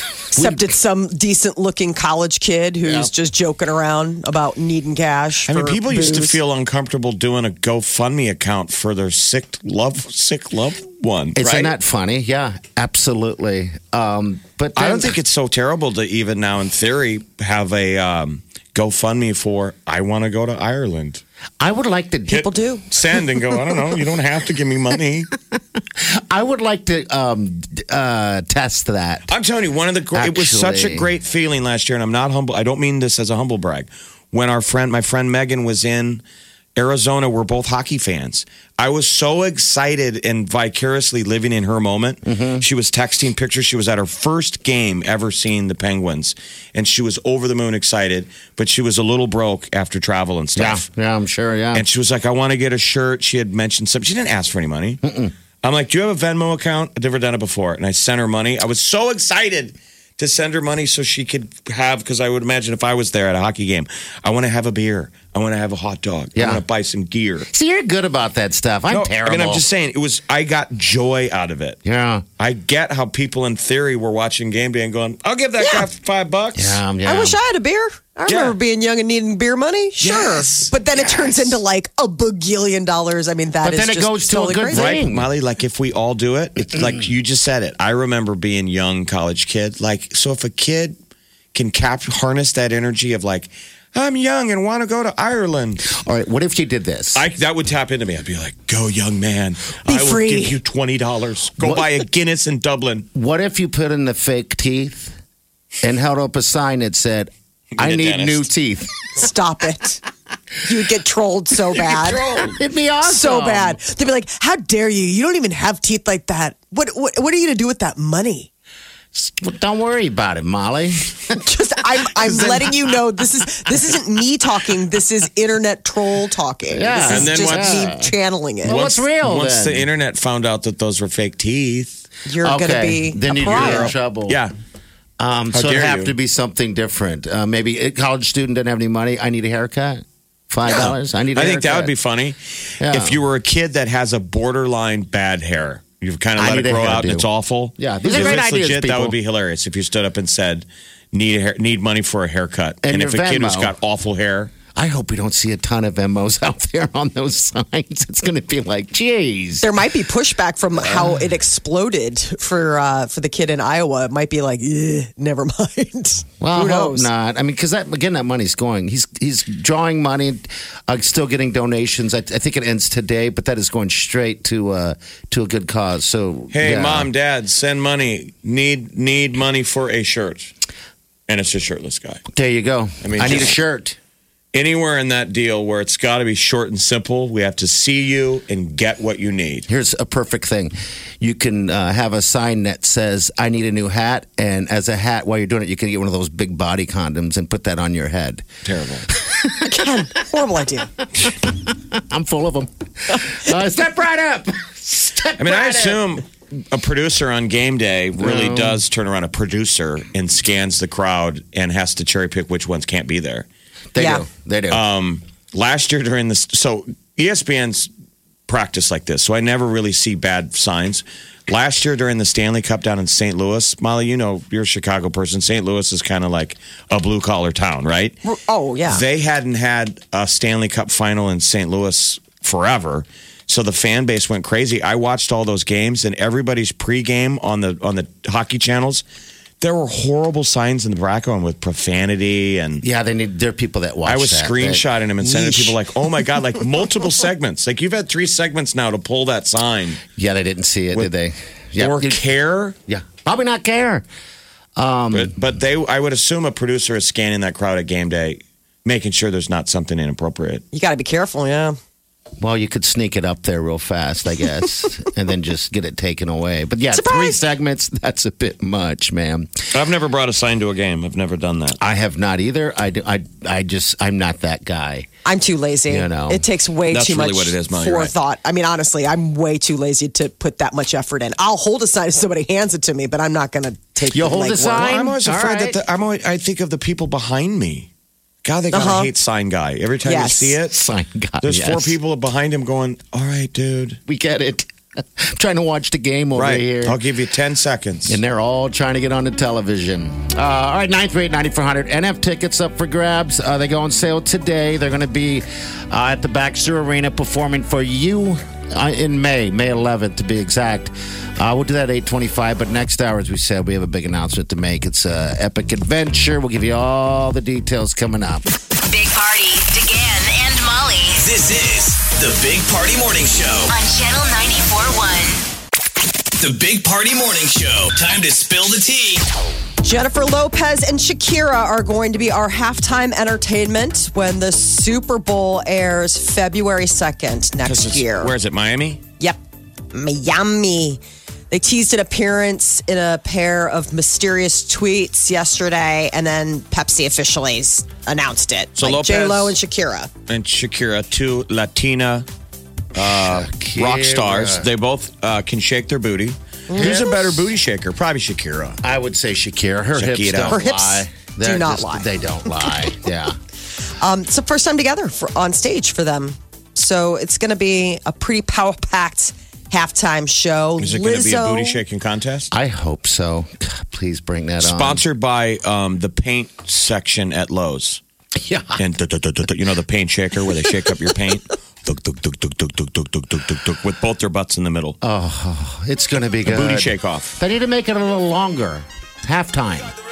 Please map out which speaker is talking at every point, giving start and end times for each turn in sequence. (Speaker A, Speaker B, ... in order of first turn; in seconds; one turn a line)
Speaker A: 0.3-6.4
Speaker B: 0.3-0.7
Speaker B: 2.8-3.1
Speaker C: 5.5-11.7
Speaker B: 11.3-15.2
Speaker C: 14.8-21.2
Speaker B: 21.6-22.5
Speaker A: 22.3-22.8
Speaker C: 22.3-25.3
Speaker B: 25.9-29.3
Speaker C: 29.3-36.2
Speaker B: 30.1-31.1
Speaker C: 36.8-50.9
Speaker B: 42.2-42.6
Speaker B: 50.5-51.8
Speaker C: 51.7-55.0
Speaker B: 55.0-55.3
Speaker C: 55.6-67.5
Speaker B: 66.3-66.6
Speaker B: 67.5-69.6
Speaker C: 68.9-71.8
Speaker B: 71.8-72.2
Speaker C: 72.4-76.8
Speaker A: 75.6-75.8
Speaker B: 76.5-77.4
Speaker A: 77.0-85.0
Speaker C: 78.3-78.5
Speaker B: 80.0-81.5
Speaker B: 83.6-85.3
Speaker C: 84.7-91.0
Speaker C: 91.5-96.0
Speaker B: 95.9-97.2
Speaker C: 97.1-103.1
Speaker A: 99.9-100.6
Speaker B: 101.6-101.9
Speaker B: 103.1-105.1
Speaker B: 105.8-108.9
Speaker C: 107.8-108.5
Speaker A: 109.2-110.0
Speaker A: 110.6-112.2
Speaker C: 111.8-112.5
Speaker B: 112.4-113.8
Speaker A: 113.0-118.5
Speaker B: 119.1-121.4
Speaker A: 121.4-128.7
Speaker B: 126.7-128.1
Speaker C: 127.1-127.9
Speaker B: 128.6-129.9
Speaker C: 128.7-132.0
Speaker A: 132.2-133.9
Speaker B: 132.4-134.4
Speaker C: 133.5-134.5
Speaker B: 135.2-141.9
Speaker C: 135.5-136.1
Speaker C: 140.6-154.5
Speaker B: 142.8-143.2
Speaker B: 146.4-147.3
Speaker B: 147.8-149.2
Speaker B: 152.8-153.7
Speaker B: 154.7-159.7
Speaker A: 159.6-167.1
Speaker B: 160.8-161.2
Speaker B: 166.4-177.1
Speaker C: 176.5-180.5
Speaker C: 181.3-182.2
Speaker B: 182.3-184.0
Speaker C: 183.0-183.6
Speaker C: 184.5-189.7
Speaker B: 189.7-198.5
Speaker C: 198.6-199.1
Speaker B: 199.1-199.7
Speaker A: 199.6-200.9
Speaker B: 201.2-206.0
Speaker C: 205.4-213.4
Speaker B: 208.2-208.8
Speaker B: 213.9-214.8
Speaker A: 214.0-214.2
Speaker C: 214.7-217.9
Speaker C: 218.5-228.2
Speaker A: 228.2-229.0
Speaker C: 228.9-239.0
Speaker C: 239.6-242.8
Speaker B: 242.8-245.8
Speaker C: 244.1-250.0
Speaker B: 250.1-252.2
Speaker C: 251.8-252.7
Speaker B: 252.9-254.0
Speaker B: 254.8-255.3
Speaker C: 255.1-260.6
Speaker A: 260.7-261.8
Speaker B: 262.4-269.7
Speaker A: 266.9-267.4
Speaker C: 269.7-271.8
Speaker B: 271.8-275.1
Speaker A: 275.2-284.9
Speaker B: 275.9-276.4
Speaker C: 276.9-278.1
Speaker B: 284.1-285.8
Speaker C: 284.8-287.9
Speaker C: 288.4-290.8
Speaker A: 288.7-289.1
Speaker A: 290.0-290.6
Speaker B: 290.7-292.0
Speaker C: 291.4-294.0
Speaker B: 294.1-297.0
Speaker C: 296.4-298.2
Speaker B: 298.1-318.5
Speaker D: 318.8-321.2
Speaker E: 321.2-323.7
Speaker D: 323.7-325.4
Speaker E: 326.4-329.3
Speaker A: 329.8-338.3
Speaker C: 337.6-339.0
Speaker A: 339.9-350.1
Speaker C: 348.8-349.6
Speaker C: 350.3-352.2
Speaker C: 352.9-358.8
Speaker B: 353.0-354.7
Speaker A: 356.7-357.0
Speaker B: 356.8-357.5
Speaker B: 358.8-363.4
Speaker C: 359.9-360.6
Speaker A: 360.5-362.1
Speaker A: 364.0-371.8
Speaker C: 370.8-372.5
Speaker B: 372.5-375.0
Speaker C: 374.6-378.0
Speaker B: 378.4-378.8
Speaker C: 378.8-385.0
Speaker B: 385.0-389.9
Speaker C: 386.4-387.3